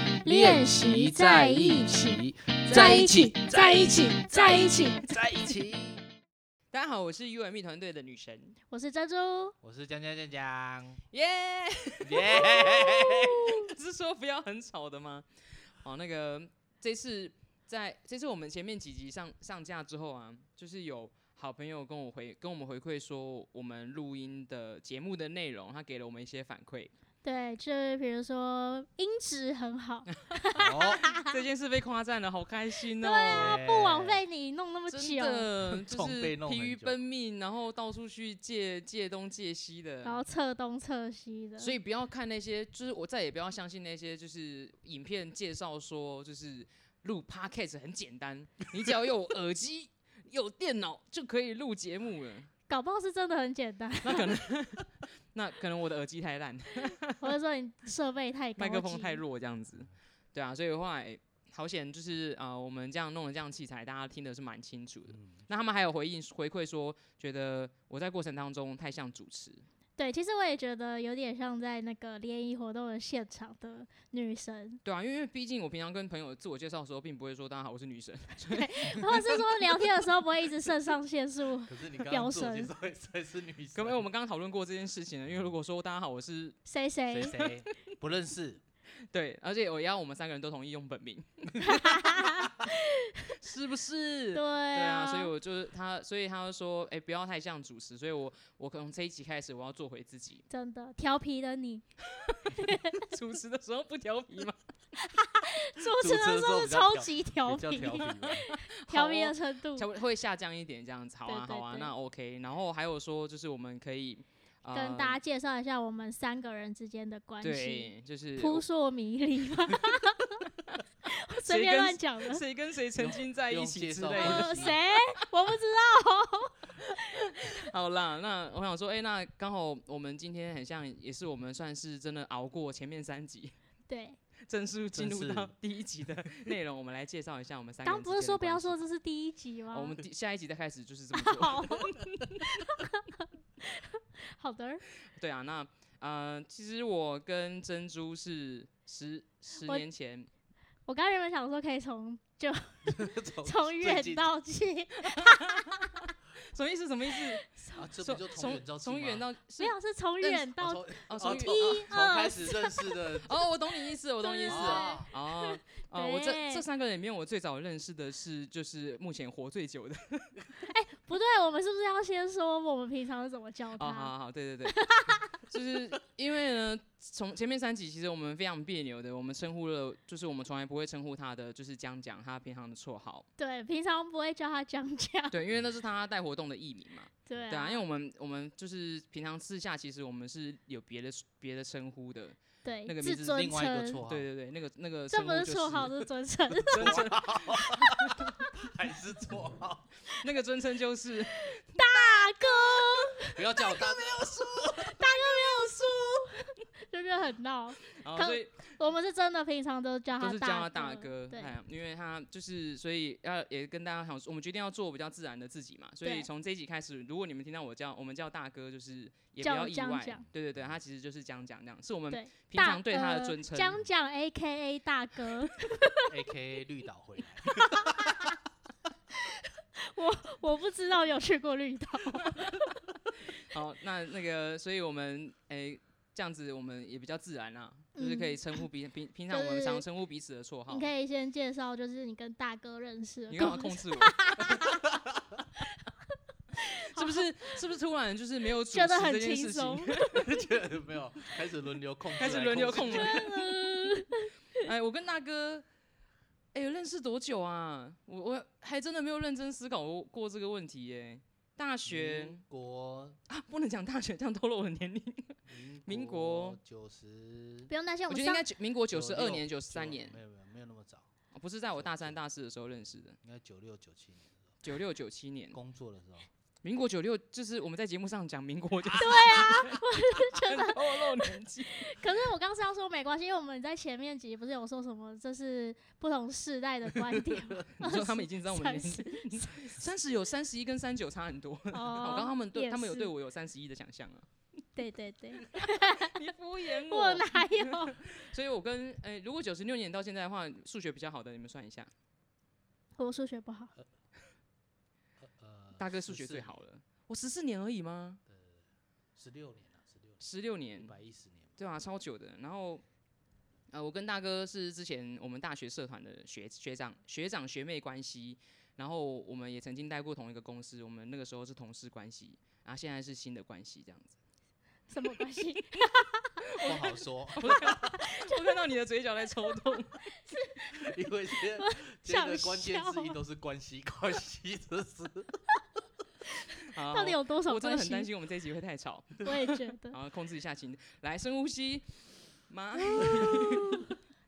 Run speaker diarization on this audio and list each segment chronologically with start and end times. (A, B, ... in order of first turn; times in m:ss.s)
0:00.2-0:05.0 A
0:00.2-0:06.1 B
0:02.7-0:03.1 C
0:06.7-0:08.6 C
0:08.7-0:09.6 A
0:09.6-0:11.0 B
0:11.1-0:26.9 C
0:12.0-0:13.5 B
0:27.2-0:31.3 A
0:30.6-0:31.1 B
0:31.2-0:33.6 C
0:33.0-0:35.5 A
0:33.3-0:34.2 B
0:34.9-0:40.2 C
0:35.7-0:37.0 B
0:40.0-0:41.7 A
0:41.6-0:52.5 C
0:52.7-0:54.4 A
0:54.0-0:57.3 C
0:57.2-0:59.2 A
0:58.6-1:09.6 C
1:05.1-1:05.5 B
1:10.0-1:14.8 A
1:14.8-1:19.3 C
1:18.5-1:22.7 A
1:21.7-1:24.0 B
1:23.8-1:26.6 C
1:26.7-1:27.4 A
1:27.1-1:28.6 B
1:27.3-1:27.7 C
1:29.1-1:32.4 C
1:31.6-1:33.4 A
1:33.4-1:40.4 C
1:34.3-1:35.3 A
1:40.5-1:41.9 A
1:42.2-1:44.6 C
1:42.5-1:43.1 A
1:45.0-1:49.9 A
1:46.0-1:48.4 B
1:48.1-1:55.2 C
1:51.3-1:51.9 A
1:54.7-2:00.4 A
1:57.4-1:58.6 C
2:00.5-2:00.8 C
2:01.1-2:02.4 A
2:01.4-2:05.1 C
2:03.0-2:04.8 B
2:04.1-2:06.6 A
2:06.8-2:13.5 C
2:13.9-2:14.2 A
2:14.5-2:18.8 C
2:14.9-2:15.5 B
2:17.8-2:20.0 A
2:19.7-2:22.7 C
2:21.1-2:24.8 A
2:25.2-2:30.3 C
2:30.9-2:35.9 A
2:32.9-2:34.2 B
2:35.0-2:37.5 C
2:37.5-2:37.9 A
2:37.8-2:39.2 B
2:38.0-2:40.5 C
2:39.6-2:43.0 A
2:40.6-2:43.3 B
2:41.1-2:41.9 C
2:43.2-2:50.4 C
2:44.2-2:46.6 A
2:44.5-2:45.1 B
2:50.6-2:54.1 A
2:53.8-2:54.8 C
2:54.7-2:55.3 A
2:55.4-3:03.3 C
3:03.4-3:05.4 A
3:05.3-3:13.3 C
3:07.3-3:07.8 A
3:12.6-3:14.0 A
3:13.0-3:14.3 B
3:14.1-3:15.9 C
3:15.1-3:17.0 A
3:16.7-3:19.9 B
3:16.7-3:18.3 C
3:18.2-3:18.5 A
3:20.2-3:21.8 C
3:21.7-3:31.6 A
3:23.3-3:25.9 B
3:28.0-3:28.7 C
3:30.2-3:43.8 C
3:39.4-3:40.2 A
3:40.2-3:40.7 B
3:42.1-3:46.2 A
3:46.0-3:48.3 B
3:47.4-3:48.4 A
3:49.1-3:52.6 A
3:52.2-3:52.6 C
3:53.4-4:00.9 C
3:58.0-3:58.6 A
3:59.3-3:59.8 A
4:00.7-4:04.8 A
4:03.3-4:04.5 C
4:04.5-4:05.4 B
4:06.7-4:10.2 C
4:06.7-4:07.6 A
4:08.7-4:10.4 A
4:10.1-4:13.5 B
4:12.2-4:13.3 C
4:12.7-4:14.7 A
4:14.6-4:15.6 C
4:16.5-4:22.4 C
4:21.8-4:23.2 B
4:23.3-4:26.6 C
4:25.5-4:27.7 B
4:27.7-4:28.4 A
4:28.1-4:30.2 C
4:28.9-4:31.1 B
4:31.3-4:33.2 C
4:31.7-4:32.2 B
4:33.2-4:34.5 B
4:34.6-4:35.6 C
4:35.5-4:36.3 B
4:36.6-4:42.0 C
4:38.8-4:39.8 B
4:39.0-4:49.9 A
4:46.9-4:47.6 B
4:47.8-4:54.3 C
4:51.7-4:53.1 A
4:54.8-4:58.0 A
4:55.6-5:01.9 C
5:03.0-5:03.7 A
5:05.2-5:06.6 B
5:05.8-5:08.2 C
5:08.3-5:08.6 B
5:09.2-5:10.2 B
5:10.2-5:10.9 C
5:10.8-5:11.6 B
5:11.6-5:12.8 C
5:13.7-5:24.2 C
5:24.9-5:26.8 A
5:26.6-5:28.0 B
5:27.4-5:30.0 C
5:28.0-5:28.6 A
5:30.1-5:30.9 A
5:30.7-5:35.4 B
5:31.6-5:33.2 A
5:36.7-5:41.9 C
5:36.9-5:38.1 A
5:39.2-5:40.0 A
5:42.5-5:43.9 C
5:42.8-5:43.9 A